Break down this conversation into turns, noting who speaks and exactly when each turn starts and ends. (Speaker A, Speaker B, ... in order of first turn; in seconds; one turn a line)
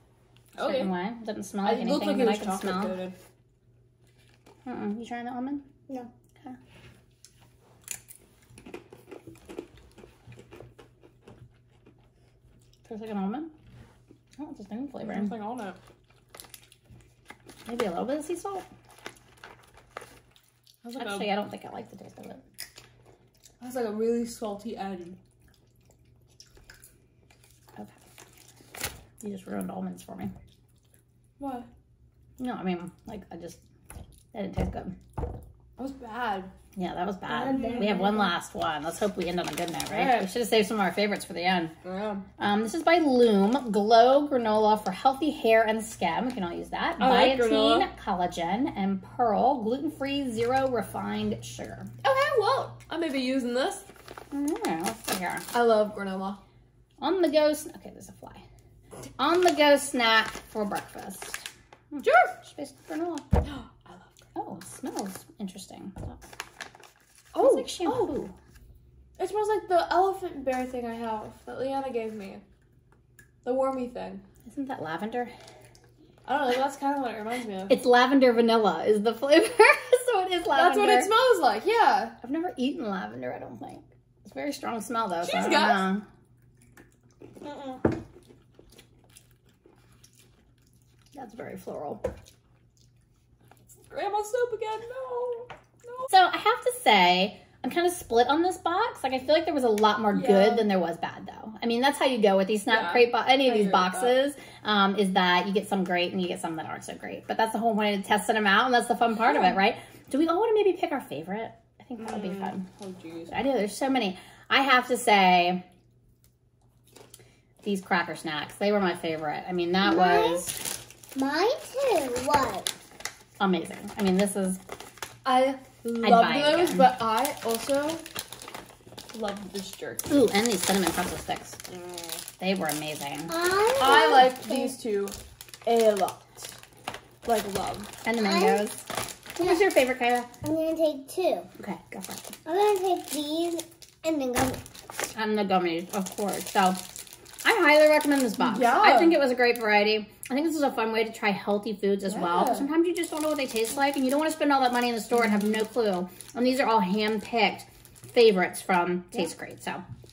Speaker A: 0.6-0.9
Speaker B: 0.6-3.0
Speaker A: 1.6-3.1
Speaker B: 4.7-5.6
Speaker B: 12.8-13.5
Speaker B: 14.4-15.3
Speaker A: 15.0-15.8
Speaker B: 17.7-18.7
Speaker A: 20.8-21.4
Speaker B: 21.0-22.4
Speaker A: 23.6-25.2
Speaker B: 29.2-30.3
Speaker A: 31.4-31.7
Speaker B: 32.4-33.6
Speaker B: 34.3-35.0
Speaker A: 35.8-36.5
Speaker B: 36.8-41.7
Speaker A: 37.4-38.3
Speaker A: 39.9-40.3
Speaker A: 41.8-42.2
Speaker B: 42.4-51.9
Speaker A: 47.0-47.9
Speaker A: 52.0-53.9
Speaker B: 54.3-55.5
Speaker A: 55.5-56.4
Speaker B: 57.0-58.4
Speaker B: 59.2-63.3
Speaker A: 62.0-62.4
Speaker A: 63.4-64.2
Speaker B: 64.4-66.2
Speaker A: 67.3-68.2
Speaker B: 67.4-68.3
Speaker A: 69.2-72.4
Speaker A: 73.4-74.2
Speaker B: 74.5-75.3
Speaker A: 76.2-77.8
Speaker B: 77.7-81.1
Speaker A: 80.5-82.2
Speaker B: 82.2-86.0
Speaker A: 85.2-85.9
Speaker C: 87.4-87.8
Speaker B: 91.2-92.0
Speaker A: 93.7-96.1
Speaker B: 96.1-112.7
Speaker A: 100.1-100.7
Speaker A: 102.7-104.1
Speaker A: 112.0-113.3
Speaker B: 113.3-115.6
Speaker B: 117.6-120.6
Speaker C: 119.9-120.4
Speaker C: 121.1-122.7
Speaker B: 123.4-124.6
Speaker A: 125.2-128.1
Speaker B: 126.0-127.0
Speaker A: 129.1-130.1
Speaker B: 130.1-131.6
Speaker A: 131.7-132.1
Speaker B: 132.4-133.3
Speaker C: 133.3-134.8
Speaker A: 133.8-136.5
Speaker A: 137.2-137.9
Speaker B: 138.0-138.8
Speaker C: 138.2-138.7
Speaker C: 139.4-139.7
Speaker B: 139.4-140.3
Speaker C: 140.4-141.5
Speaker B: 141.6-142.3
Speaker C: 142.5-144.6
Speaker B: 145.2-146.8
Speaker B: 147.4-159.8
Speaker A: 148.4-149.2
Speaker A: 152.1-152.7